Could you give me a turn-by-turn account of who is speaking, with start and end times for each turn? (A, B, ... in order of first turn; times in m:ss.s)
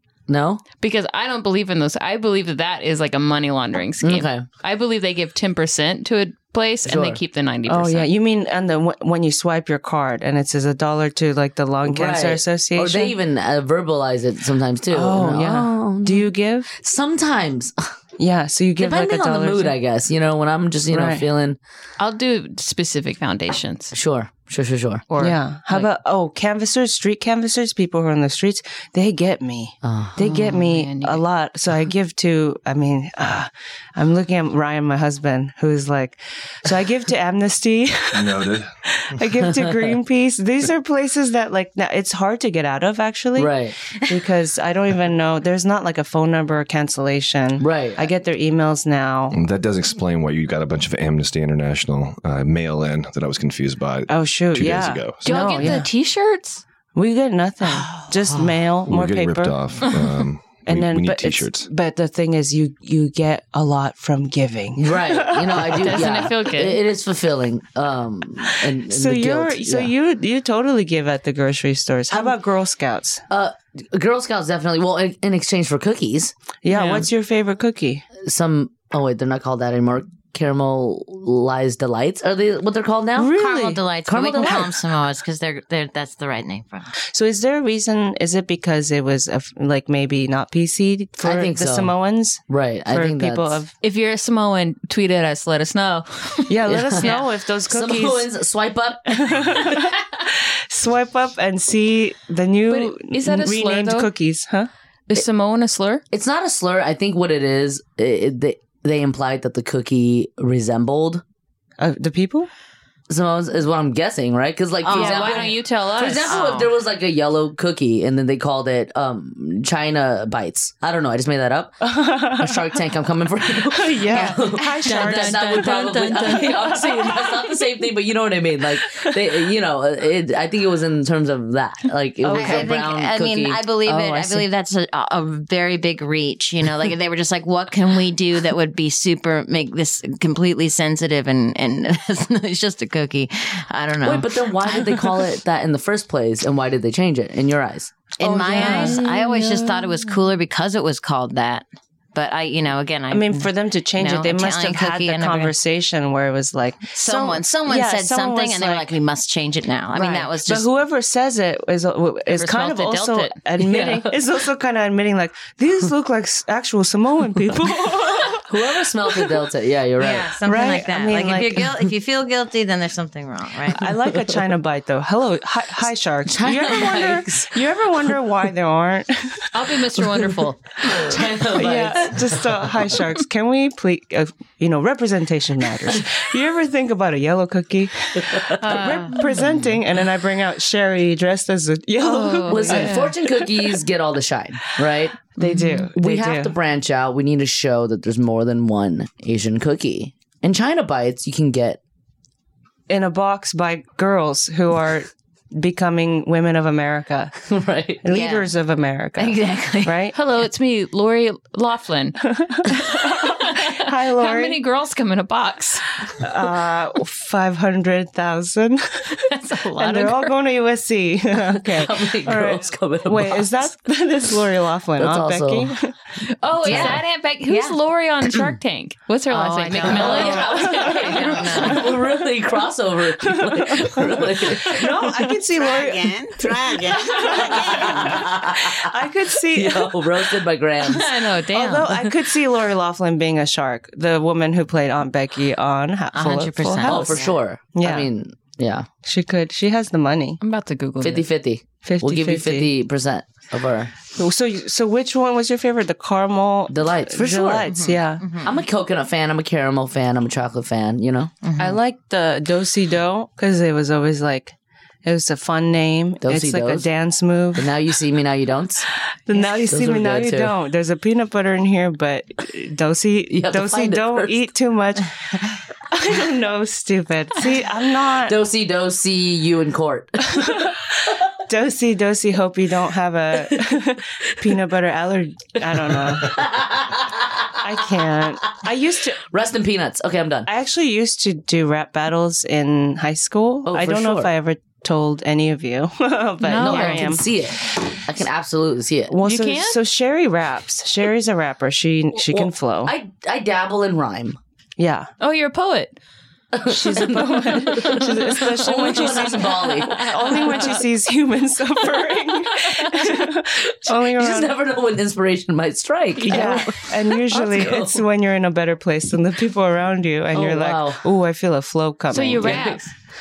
0:00.3-0:00.6 A
0:00.8-0:08.1 B
0:04.0-0:04.5 A
0:06.8-0:07.2 A
0:07.7-0:13.2 C
0:11.9-0:17.9 A
0:14.9-0:16.8 C
0:18.2-0:19.8 C
0:18.8-0:21.6 A
0:20.9-0:21.2 C
0:22.0-0:23.9 B
0:23.9-0:25.0 A
0:25.1-0:25.9 B
0:25.2-0:49.4 C
0:29.8-0:30.2 A
0:30.2-0:31.2 B
0:38.1-0:38.7 D
0:43.4-0:43.8 A
0:47.6-0:48.1 A
0:49.3-0:55.2 D
0:54.1-0:55.9 C
0:55.2-0:56.6 B
0:57.0-0:59.6 C
0:58.9-1:01.7 D
1:00.7-1:06.1 C
1:04.8-1:09.9 A
1:05.8-1:06.8 B
1:08.8-1:13.2 C
1:13.3-1:16.3 A
1:16.6-1:18.1 C
1:16.7-1:17.1 B
1:18.2-1:23.4 A
1:23.2-1:23.8 C
1:23.3-1:26.9 E
1:24.0-1:24.7 A
1:24.4-1:24.7 C
1:27.1-1:33.7 C
1:31.2-1:32.0 A
1:32.5-1:33.6 A
1:33.8-1:37.2 B
1:36.5-1:38.3 C
1:36.7-1:39.6 A
1:39.1-1:44.7 C
1:42.7-1:44.1 B
1:45.1-1:46.0 B
1:46.1-1:51.2 A
1:51.8-1:52.5 C
1:53.1-2:14.4 A
1:54.8-1:55.6 E
1:54.9-1:56.6 B
1:56.2-1:56.7 E
2:01.8-2:02.7 C
2:03.7-2:07.0 C
2:04.1-2:04.4 E
2:04.8-2:07.0 B
2:12.2-2:12.8 C
2:12.3-2:25.0 E
2:24.0-2:29.5 A
2:28.2-2:35.6 E
2:28.2-2:29.1 C
2:33.1-2:38.9 C
2:36.9-2:40.7 E
2:40.0-2:48.5 C
2:42.3-2:43.4 B
2:43.6-2:44.2 A
2:48.4-2:50.4 A
2:50.0-2:53.9 E
2:50.4-2:51.7 C
2:53.8-2:59.5 C
2:53.9-2:54.4 A
2:56.3-2:57.7 A
2:59.5-3:01.2 B
3:00.1-3:02.9 A
3:01.6-3:13.6 C
3:08.2-3:09.0 A
3:08.6-3:09.2 B
3:12.0-3:13.1 B
3:12.4-3:15.2 A
3:15.4-3:16.5 C
3:15.4-3:15.9 B
3:15.9-3:21.8 A
3:22.9-3:27.4 C
3:27.4-3:28.0 A
3:28.0-3:30.2 C
3:28.1-3:28.5 E
3:29.2-3:30.0 E
3:30.1-3:35.9 B
3:32.3-3:34.6 C
3:36.2-3:39.2 C
3:39.1-3:40.3 B
3:39.8-3:45.9 C
3:41.6-3:43.7 A
3:45.0-3:45.8 A
3:46.4-3:51.4 B
3:46.6-3:47.8 E
3:46.7-3:47.0 A
3:49.3-3:51.8 E
3:49.7-3:55.2 A
3:49.9-3:52.1 C
3:53.3-3:56.2 C
3:55.2-3:58.3 F
3:57.1-3:58.9 A
3:57.2-4:00.2 C
3:59.5-4:01.1 A
4:00.9-4:02.1 B
4:01.5-4:08.1 C
4:06.1-4:07.4 E
4:06.8-4:08.9 A
4:09.0-4:10.4 C
4:10.4-4:11.3 B
4:11.0-4:13.9 A
4:11.8-4:12.7 C
4:14.2-4:18.3 C
4:16.7-4:17.8 A
4:17.7-4:18.6 E
4:18.4-4:21.3 A
4:21.4-4:21.8 E
4:21.6-4:27.8 C
4:26.2-4:26.9 A
4:27.6-4:30.5 A
4:29.3-4:35.1 C
4:33.3-4:34.5 A
4:35.9-4:38.4 C
4:38.2-4:40.7 A
4:40.3-4:40.8 C
4:41.5-4:46.5 C
4:43.3-4:44.5 A
4:45.6-4:48.3 A
4:47.6-4:49.2 C
4:49.2-4:50.5 A
4:50.5-4:57.2 C
4:53.7-4:54.3 A
4:56.4-4:57.1 B
4:56.5-4:59.2 A
4:59.1-5:02.9 C
4:59.2-4:59.8 B
5:02.2-5:04.4 A
5:04.8-5:05.1 C
5:05.2-5:06.0 B
5:06.5-5:10.8 A
5:06.6-5:14.6 C
5:08.8-5:10.8 B
5:12.9-5:18.0 A
5:16.2-5:16.7 B
5:16.3-5:22.8 C
5:20.3-5:21.0 A
5:22.1-5:22.9 B
5:22.4-5:22.8 A